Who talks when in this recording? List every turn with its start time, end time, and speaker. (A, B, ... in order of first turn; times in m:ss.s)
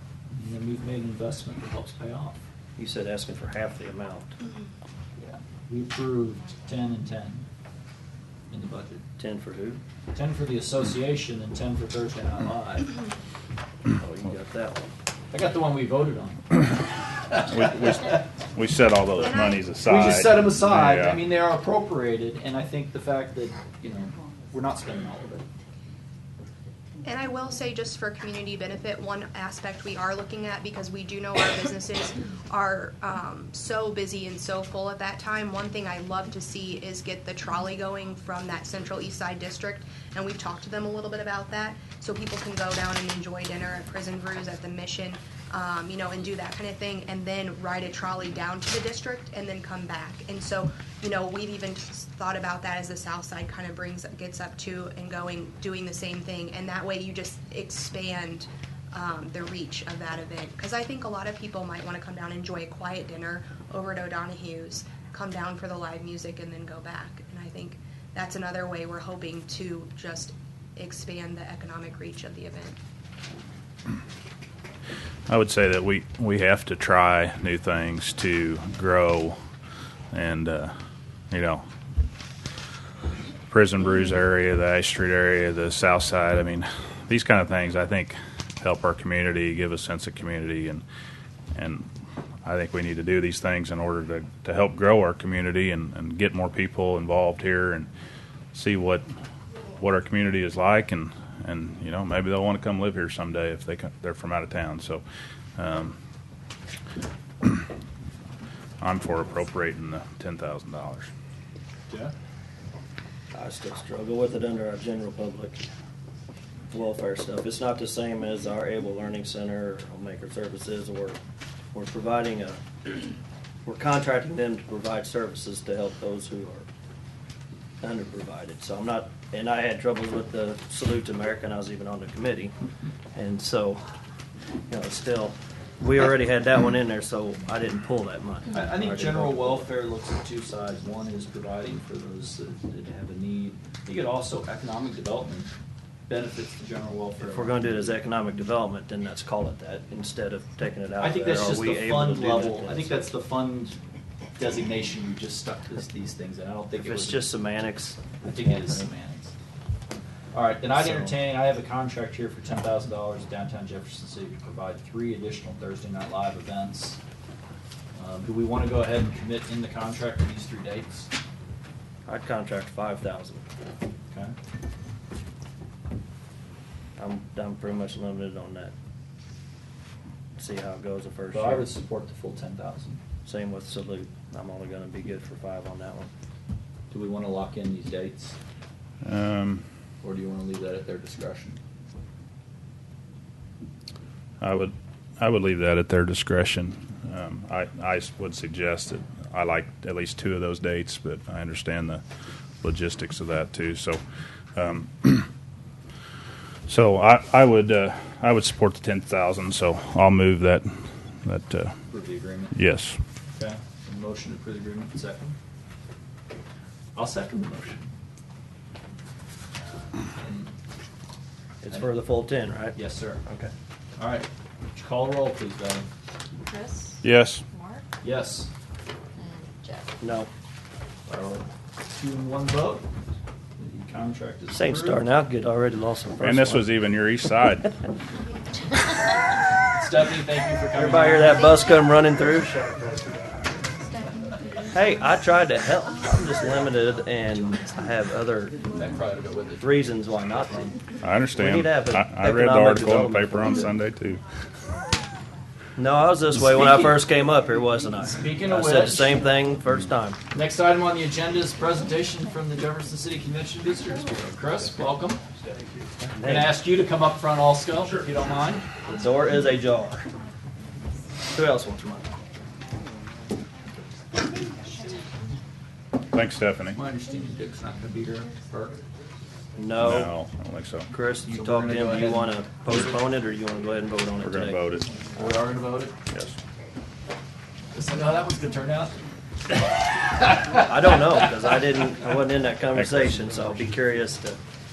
0:00.3-0:02.4 A
0:02.8-0:04.4 B
0:05.2-0:07.4 A
0:08.5-0:09.0 A
0:09.2-0:09.8 B
0:10.1-0:13.0 A
0:14.0-0:14.9 B
0:15.3-0:18.2 A
0:17.5-0:21.2 C
0:19.2-0:19.6 D
0:19.8-0:25.5 A
0:27.0-1:12.8 D
1:15.3-1:19.4 C
1:20.1-1:20.7 C
1:21.3-1:21.6 C
1:23.5-1:30.8 C
1:31.5-1:31.9 C
1:32.4-1:37.9 C
1:38.5-1:39.1 C
1:39.8-1:45.0 C
1:45.6-1:46.0 C
1:48.8-1:51.1 C
1:53.3-1:55.6 B
1:56.7-2:01.2 B
2:01.7-2:02.9 B
2:03.6-2:06.7 B
2:07.8-2:12.5 B
2:13.1-2:13.8 B
2:14.7-2:19.7 B
2:18.5-2:25.5 A
2:26.1-2:28.0 A
2:27.2-2:32.9 B
2:31.0-2:33.8 A
2:34.4-2:37.3 A
2:36.8-2:38.7 B
2:38.2-2:39.3 A
2:40.3-2:47.0 A
2:40.8-2:41.1 B
2:47.9-2:51.1 A
2:52.0-2:53.4 B
2:57.0-2:58.7 B
3:00.4-3:01.7 B
3:01.3-3:03.0 A
3:03.2-3:06.1 B
3:06.9-3:08.4 A
3:09.0-3:09.6 C
3:10.0-3:11.6 A
3:14.4-3:22.0 C
3:22.6-3:24.0 C
3:24.5-3:25.3 C
3:26.7-3:31.7 C
3:31.9-3:32.6 A
3:32.5-3:33.0 C
3:33.3-3:35.4 A
3:36.9-3:37.9 A
3:39.6-3:40.5 A
3:41.6-3:43.5 B
3:42.7-3:43.2 A
3:44.0-3:45.8 A
3:46.4-3:47.8 E
3:47.0-3:47.4 C
3:48.0-3:48.5 A
3:49.2-3:49.9 E
3:50.0-3:50.3 B
3:51.1-3:52.8 A
3:53.6-3:55.0 A
3:54.5-3:56.7 B
3:56.2-3:57.7 C
3:59.7-4:01.6 A
4:00.7-4:02.6 B
4:04.2-4:04.6 E
4:04.7-4:08.6 B
4:08.7-4:10.8 A
4:09.6-4:10.7 B
4:11.0-4:14.2 C
4:11.3-4:13.7 B
4:15.8-4:20.2 B
4:16.3-4:17.0 A
4:18.0-4:19.2 A
4:20.3-4:25.2 A
4:26.0-4:26.6 B
4:26.2-4:28.7 A
4:28.8-4:30.1 B
4:31.3-4:32.1 B
4:36.1-4:36.8 C
4:36.7-4:38.8 A
4:39.6-4:40.1 B
4:39.8-4:40.9 C
4:40.9-4:44.6 B
4:41.3-4:43.0 A
4:44.2-4:44.9 C
4:45.1-4:45.9 A
4:47.7-4:49.0 A
4:49.6-4:51.2 A
4:50.5-4:54.4 B
4:52.7-4:53.2 C